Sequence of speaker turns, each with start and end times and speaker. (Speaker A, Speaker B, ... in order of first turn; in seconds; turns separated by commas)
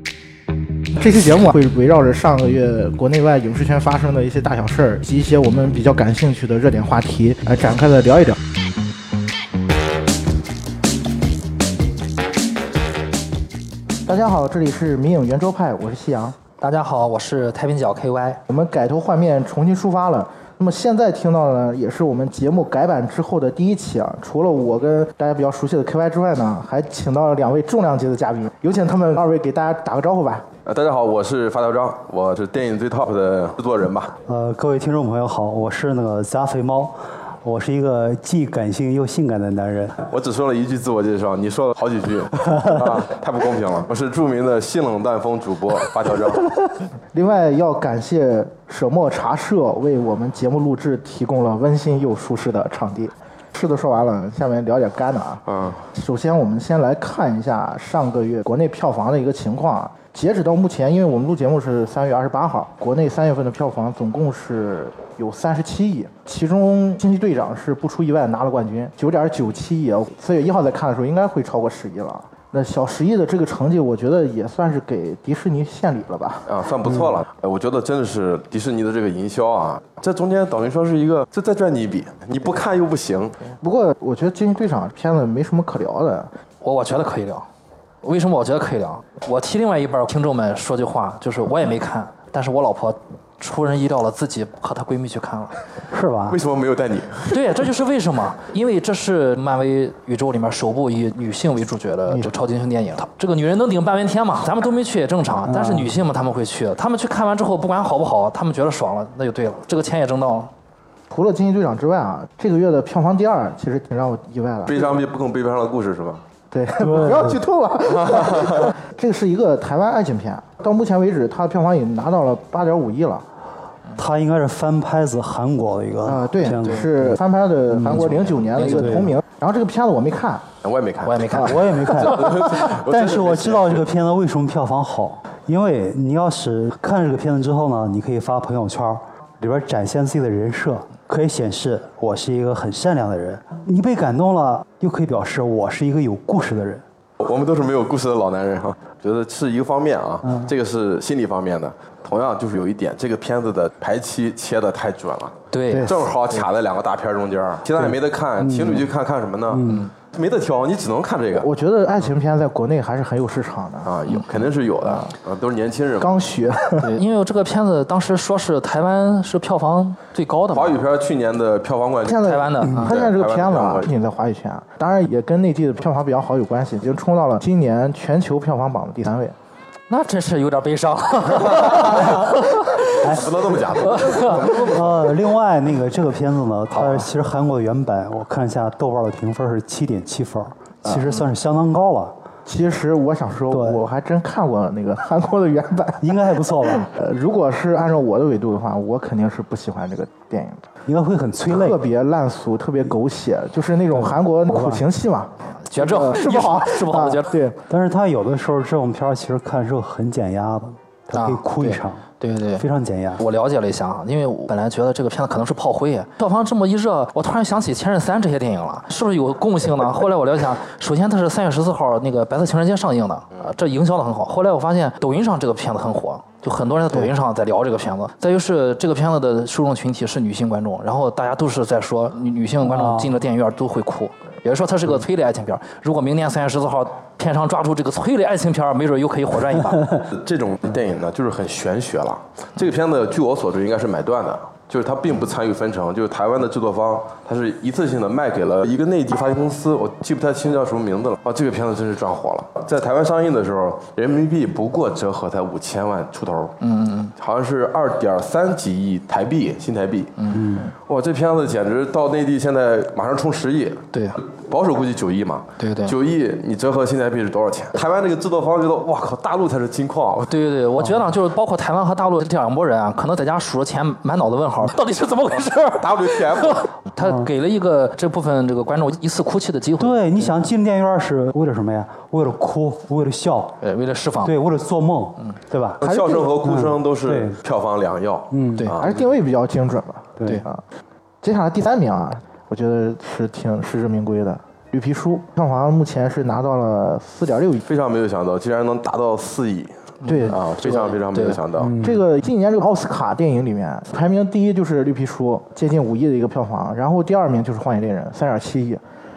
Speaker A: 1.0-8.4, Speaker A: 14.1-16.4, Speaker B: 16.6-18.4, Speaker A: 18.5-30.5, Speaker C: 30.6-34.1, Speaker D: 34.3-40.0, Speaker C: 40.1-46.5, Speaker A: 47.1-76.5, Speaker C: 55.5-55.9, Speaker C: 76.5-83.4, Speaker A: 83.6-86.3, Speaker B: 86.6-87.5, Speaker B: 88.0-95.5, Speaker D: 95.9-96.4, Speaker C: 96.3-97.4, Speaker B: 97.3-110.5, Speaker D: 105.5-106.0, Speaker A: 111.1-115.0, Speaker C: 114.7-116.2, Speaker A: 116.5-123.2, Speaker D: 116.8-117.4, Speaker C: 117.9-118.7, Speaker D: 124.0-129.2, Speaker A: 126.0-130.5, Speaker B: 126.6-126.8, Speaker B: 128.2-129.0, Speaker C: 130.6-133.8, Speaker B: 131.0-131.6, Speaker D: 131.4-146.8, Speaker C: 147.2-161.5, Speaker D: 150.2-150.5, Speaker B: 155.5-155.9, Speaker A: 155.7-156.0, Speaker D: 157.8-158.9, Speaker D: 159.5-159.8, Speaker B: 159.7-159.9, Speaker A: 161.4-164.0, Speaker C: 163.8-166.2, Speaker A: 166.0-167.0, Speaker B: 166.8-170.8, Speaker C: 170.5-173.9, Speaker A: 172.1-179.3, Speaker B: 172.3-172.9, Speaker B: 179.9-182.7, Speaker C: 181.6-181.9, Speaker C: 182.9-185.1, Speaker D: 183.0-183.5, Speaker B: 183.9-184.3, Speaker D: 184.1-192.2, Speaker B: 186.7-187.0, Speaker A: 190.9-191.2, Speaker A: 192.5-200.7, Speaker D: 193.5-193.8, Speaker D: 196.0-196.9, Speaker D: 200.9-201.8, Speaker A: 201.5-207.6, Speaker D: 203.9-204.8, Speaker B: 205.6-207.3, Speaker D: 207.7-212.1, Speaker B: 211.1-212.7, Speaker D: 212.6-213.2, Speaker B: 213.2-240.0, Speaker D: 232.6-233.1, Speaker C: 240.1-256.6, Speaker B: 256.6-257.1, Speaker C: 257.2-260.1, Speaker B: 260.2-260.6, Speaker D: 260.4-260.6, Speaker C: 260.9-270.3, Speaker B: 263.9-264.2, Speaker B: 265.6-265.9, Speaker B: 270.3-280.3, Speaker C: 275.8-276.7, Speaker D: 277.0-277.3, Speaker D: 279.8-283.6, Speaker B: 283.6-284.4, Speaker D: 284.2-285.8, Speaker C: 285.8-289.0, Speaker A: 285.8-286.3, Speaker D: 286.4-287.4, Speaker D: 288.3-288.7, Speaker A: 288.8-290.6, Speaker D: 290.2-290.4, Speaker A: 291.2-297.6, Speaker C: 297.6-301.8, Speaker B: 300.0-301.4, Speaker A: 300.1-300.4, Speaker D: 301.6-302.0, Speaker A: 301.8-308.8